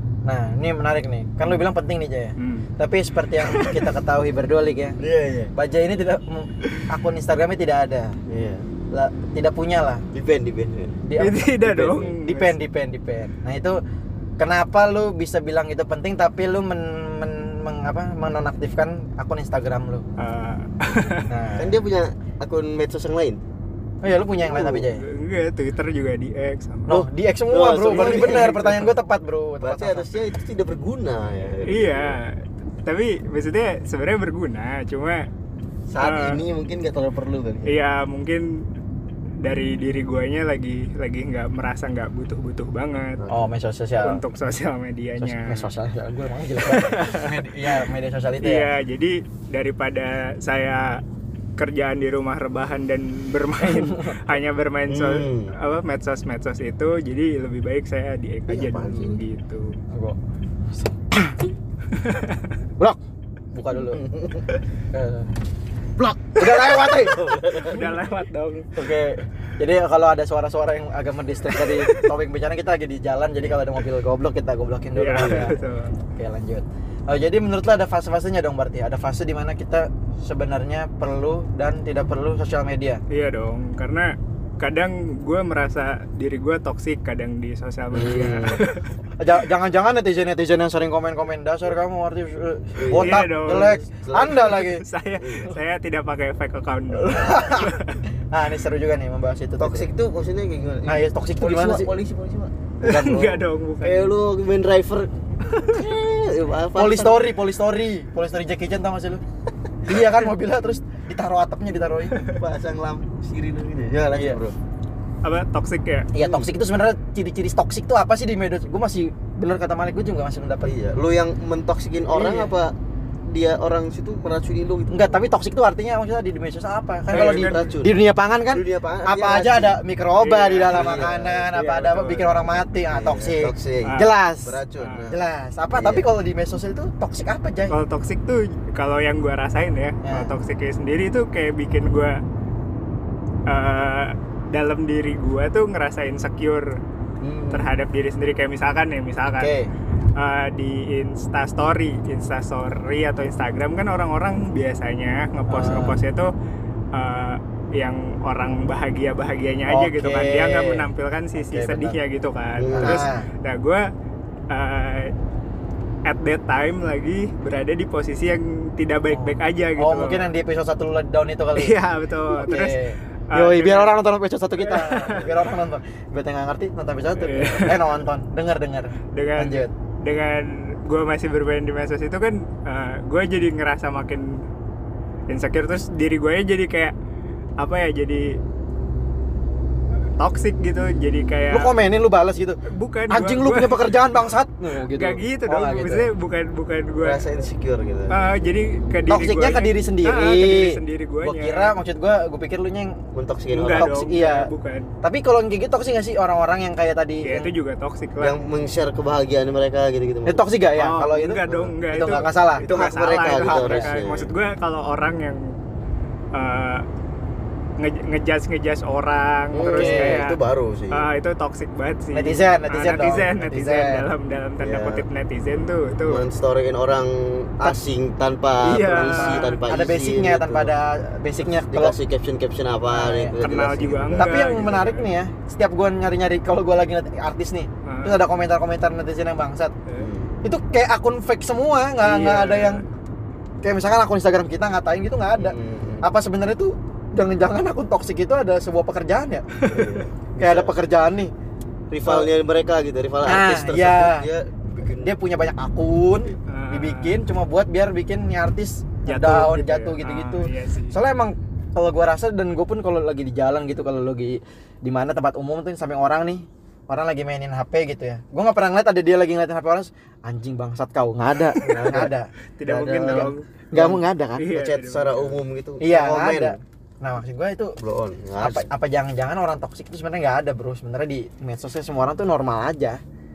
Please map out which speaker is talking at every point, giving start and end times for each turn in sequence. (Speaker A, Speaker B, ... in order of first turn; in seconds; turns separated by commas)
Speaker A: 0.2-5.0, Speaker B: 2.4-2.7, Speaker B: 3.4-3.9, Speaker C: 5.0-5.5, Speaker A: 5.5-8.2, Speaker C: 8.3-8.7, Speaker A: 8.9-10.0, Speaker C: 10.1-11.0, Speaker A: 11.0-13.8, Speaker B: 11.2-12.6, Speaker A: 14.4-20.1, Speaker B: 20.2-21.3, Speaker A: 21.3-21.8, Speaker C: 21.6-23.4, Speaker A: 24.0-25.0, Speaker C: 24.4-24.9, Speaker B: 24.9-26.9, Speaker A: 26.9-30.1, Speaker C: 26.9-28.8, Speaker B: 27.9-28.9, Speaker C: 29.6-32.2, Speaker B: 31.6-35.3, Speaker C: 35.9-37.8, Speaker B: 36.0-36.4, Speaker B: 37.6-38.6, Speaker B: 39.4-43.2, Speaker C: 43.2-43.5, Speaker A: 43.3-44.2, Speaker B: 44.0-45.7, Speaker A: 45.2-48.7, Speaker B: 46.6-47.9, Speaker B: 48.4-51.0, Speaker B: 51.6-59.8, Speaker A: 53.6-54.2, Speaker C: 54.9-55.5, Speaker C: 58.5-59.2, Speaker A: 59.9-60.2, Speaker A: 60.7-61.5, Speaker B: 61.9-62.5, Speaker A: 63.5-64.0, Speaker C: 63.8-64.5, Speaker A: 64.9-65.3, Speaker A: 66.0-67.7, Speaker C: 66.5-67.9, Speaker B: 67.6-68.8, Speaker A: 68.8-83.0, Speaker B: 71.5-72.0, Speaker B: 74.9-76.0, Speaker C: 75.2-75.5, Speaker B: 83.1-88.9, Speaker C: 87.9-88.6, Speaker A: 89.2-94.8, Speaker C: 92.8-94.5, Speaker B: 92.9-98.0, Speaker C: 95.2-95.5, Speaker A: 97.0-97.7, Speaker A: 98.3-99.9, Speaker C: 99.6-107.2, Speaker A: 100.8-101.9, Speaker B: 102.8-104.2, Speaker B: 105.5-105.8, Speaker A: 106.7-109.2, Speaker A: 109.8-112.2, Speaker B: 112.1-112.4, Speaker C: 112.3-114.5, Speaker A: 114.1-114.4, Speaker B: 115.2-116.1, Speaker A: 116.1-120.7, Speaker C: 116.2-116.5, Speaker C: 120.6-122.7, Speaker B: 122.2-122.5, Speaker C: 123.2-125.2, Speaker A: 124.9-137.8, Speaker B: 127.1-127.7, Speaker C: 127.1-128.0, Speaker C: 128.5-129.8, Speaker B: 130.2-132.6, Speaker C: 130.7-131.4, Speaker C: 132.9-135.2, Speaker B: 133.8-134.1, Speaker B: 134.8-135.1, Speaker C: 135.7-136.1, Speaker B: 137.7-142.2, Speaker A: 140.0-140.3, Speaker B: 143.5-146.7, Speaker C: 147.2-147.7, Speaker B: 147.5-149.5, Speaker A: 149.4-149.7, Speaker B: 150.2-156.3, Speaker A: 155.5-156.0, Speaker B: 156.9-163.9, Speaker A: 159.7-161.9, Speaker C: 162.6-163.1, Speaker A: 162.8-163.3, Speaker B: 164.5-165.1, Speaker B: 166.1-170.3, Speaker A: 169.1-179.7, Speaker B: 171.6-173.9, Speaker B: 174.6-175.3, Speaker B: 177.2-177.9, Speaker B: 179.1-184.4, Speaker B: 185.3-186.9, Speaker B: 187.6-188.4, Speaker B: 190.2-191.7, Speaker A: 191.5-192.6, Speaker B: 192.7-193.9, Speaker A: 193.1-196.1, Speaker B: 194.9-197.2, Speaker C: 197.0-198.1, Speaker B: 198.1-201.7, Speaker A: 199.1-203.0, Speaker C: 203.1-204.0, Speaker B: 203.5-204.9, Speaker A: 203.7-204.5, Speaker A: 205.0-207.5, Speaker B: 207.2-208.4, Speaker C: 208.2-210.4, Speaker A: 210.2-212.7, Speaker B: 210.8-215.5, Speaker C: 212.6-214.3, Speaker A: 213.3-214.0, Speaker B: 216.3-216.8, Speaker B: 217.8-220.4, Speaker C: 219.5-221.1, Speaker A: 219.7-220.2, Speaker B: 220.9-226.2, Speaker A: 222.1-224.0, Speaker C: 224.6-225.1, Speaker C: 226.0-230.7, Speaker B: 228.6-229.6, Speaker A: 229.0-232.0, Speaker C: 231.4-234.3, Speaker A: 232.9-233.4, Speaker B: 233.4-235.1, Speaker A: 234.2-239.7, Speaker B: 237.8-238.2, Speaker C: 240.0-240.4, Speaker A: 240.4-242.8, Speaker B: 242.0-242.8, Speaker A: 243.6-249.6, Speaker C: 245.3-246.1, Speaker B: 249.6-250.0, Speaker C: 249.7-250.8, Speaker A: 250.4-251.3, Speaker C: 251.9-255.2, Speaker A: 252.0-252.3, Speaker A: 253.2-254.3, Speaker A: 255.0-272.3, Speaker B: 256.5-257.2, Speaker B: 259.1-261.0, Speaker B: 271.5-272.0, Speaker C: 271.6-272.1, Speaker B: 272.6-273.5, Speaker C: 272.7-276.6, Speaker A: 273.0-274.5, Speaker B: 274.4-275.4, Speaker A: 275.8-277.8, Speaker C: 277.8-278.7, Speaker A: 278.4-283.0